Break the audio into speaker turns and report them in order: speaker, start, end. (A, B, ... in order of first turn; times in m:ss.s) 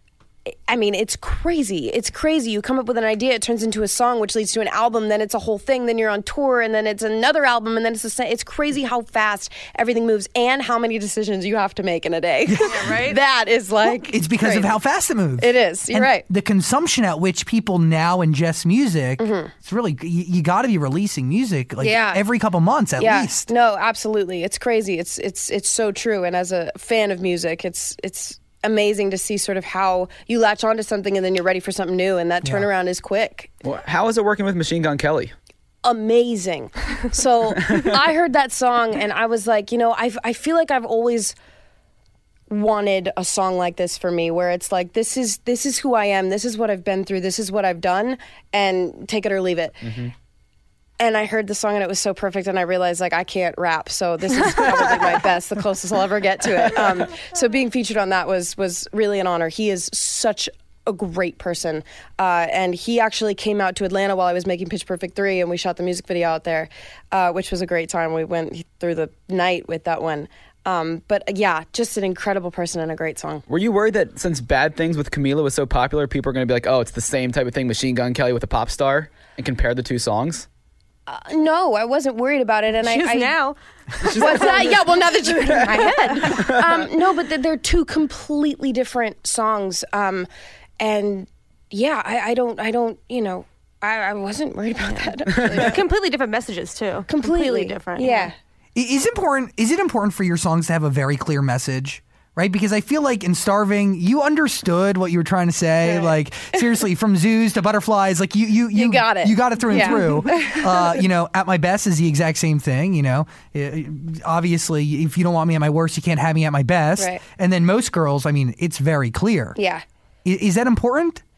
0:00.4-0:14.8 A
0:12.4-0:13.0 B
0:12.7-0:13.2 C
0:13.8-0:23.5 B
0:15.4-0:16.2 A
0:19.2-0:19.5 A
0:21.8-0:22.2 A
0:23.0-0:33.5 A
0:33.6-0:35.3 D
0:35.8-0:41.3 A
0:42.5-0:49.9 A
0:49.8-0:50.1 D
0:51.0-1:13.4 A
1:13.5-1:20.4 D
1:21.1-1:23.3 A
1:22.8-1:24.8 C
1:24.0-1:30.3 A
1:25.8-1:26.3 C
1:26.2-1:26.6 D
1:30.8-1:35.8 A
1:35.0-1:38.3 C
1:35.3-1:35.7 D
1:37.1-1:38.3 A
1:38.7-1:59.6 B
1:45.8-1:46.6 A
1:48.7-1:51.0 A
1:57.0-1:57.2 A
1:59.6-1:59.8 A
2:00.2-2:01.2 B